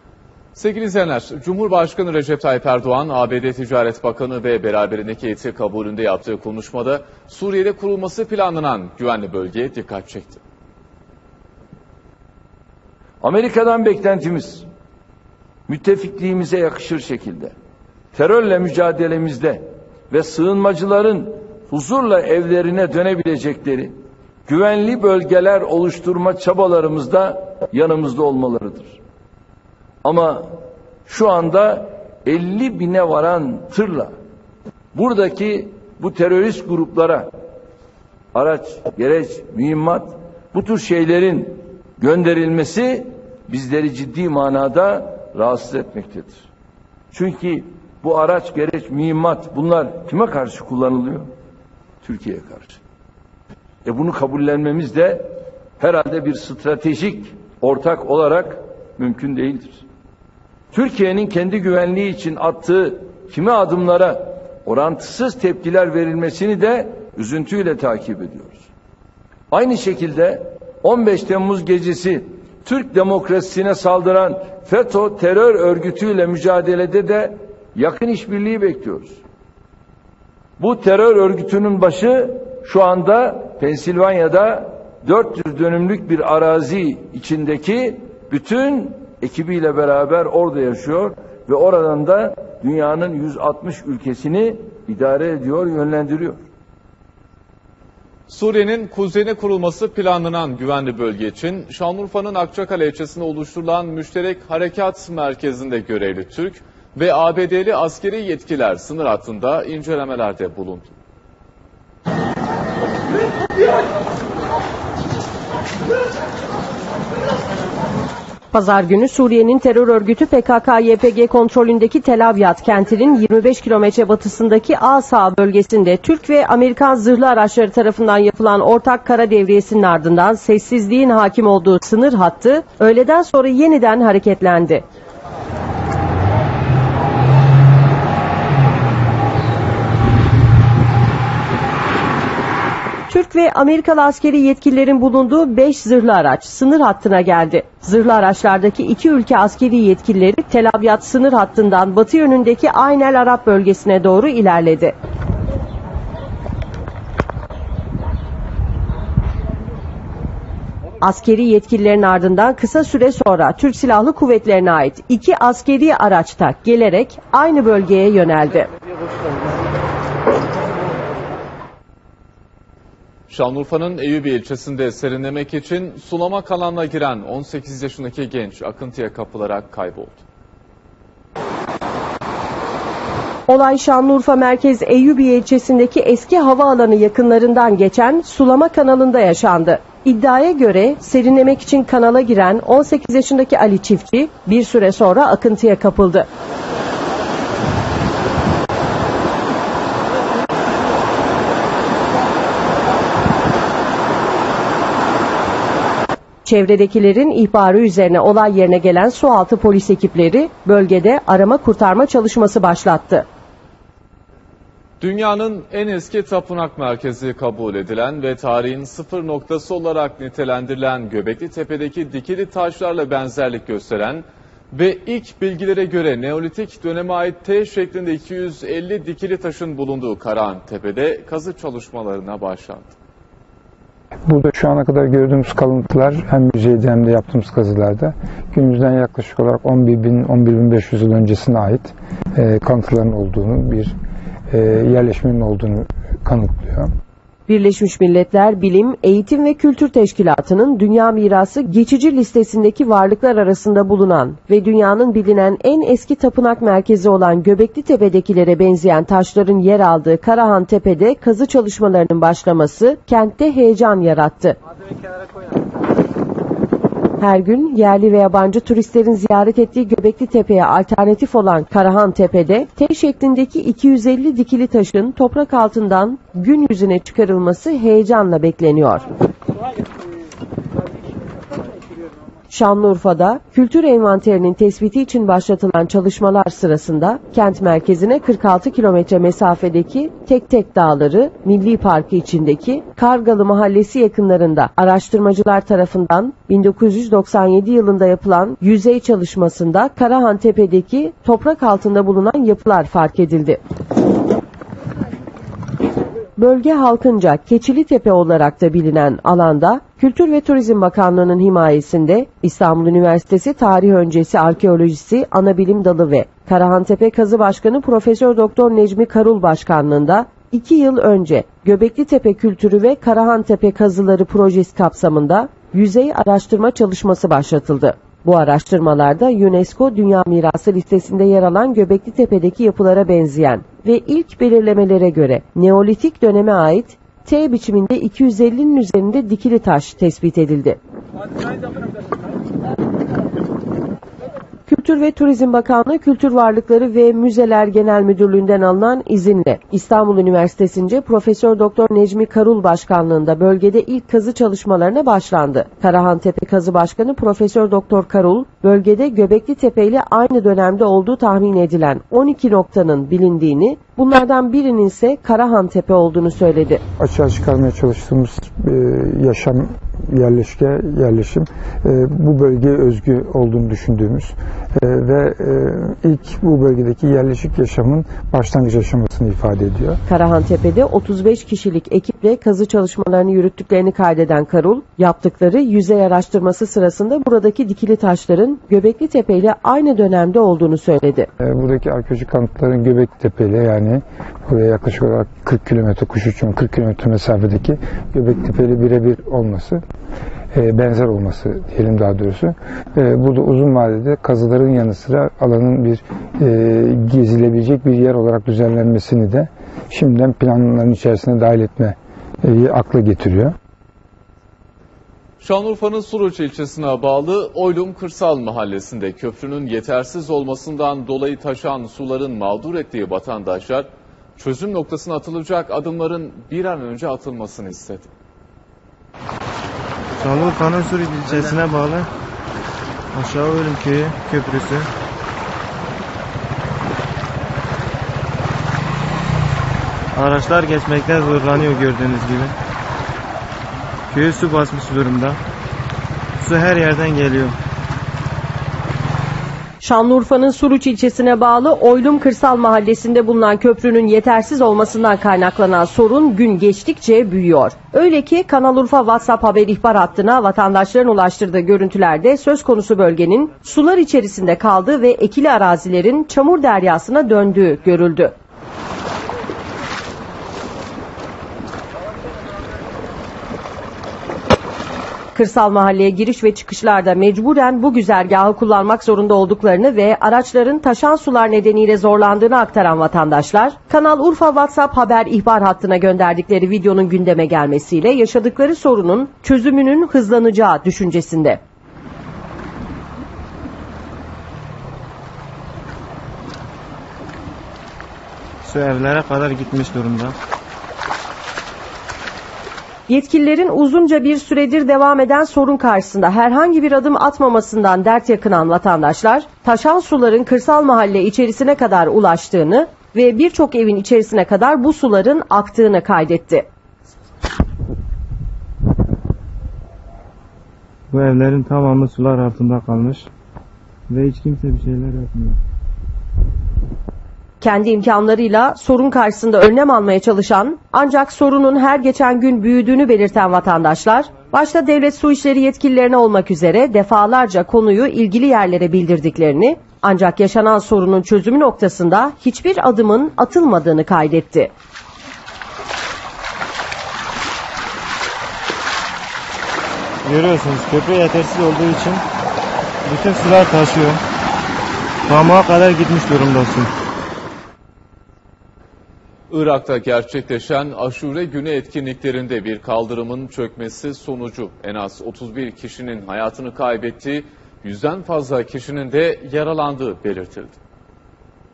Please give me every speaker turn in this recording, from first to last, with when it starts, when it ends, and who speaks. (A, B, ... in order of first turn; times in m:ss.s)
0:00.6-0:10.4 A
0:13.2-0:14.6 B
0:15.7-0:17.5 B
0:18.2-0:23.9 B
0:24.5-0:28.9 B
0:30.0-0:30.5 B
0:31.1-0:34.1 B
0:35.0-0:37.3 B
0:38.4-0:46.3 B
0:47.1-0:51.2 B
0:52.0-0:52.7 B
0:53.9-0:55.3 B
0:55.8-0:59.8 B
1:00.7-1:08.6 B
1:09.5-1:19.2 B
1:20.6-1:36.4 B
1:38.3-1:50.9 A
1:58.5-2:14.8 C
2:23.1-2:34.9 C
2:41.0-2:48.7 C
2:53.3-3:00.2 A
3:03.5-3:16.3 C
3:26.4-3:33.3 C
3:35.0-3:52.9 A
3:54.3-4:04.0 D
4:04.5-4:06.9 D
4:07.5-4:24.6 C
4:27.2-4:39.1 C
4:42.5-5:03.6 C
5:06.4-5:40.8 C
5:44.7-6:06.8 C
6:07.0-6:20.0 D
6:20.1-6:31.3 C
6:31.4-6:39.8 D
6:40.5-6:53.6 D
6:55.4-7:08.1 A
7:10.2-7:12.1 E
7:13.1-7:14.9 E
7:20.1-7:22.6 E
7:24.1-7:25.4 E
7:26.4-7:27.6 E
7:29.8-7:48.3 C
7:55.4-8:11.6 C
8:18.6-8:20.4 E
8:23.1-8:36.7 C
8:41.1-8:43.3 E
8:44.1-8:45.6 E
8:47.6-9:04.7 C
9:10.2-9:12.2 E
9:13.0-9:14.2 E
9:15.3-9:16.9 E
9:19.5-9:30.8 A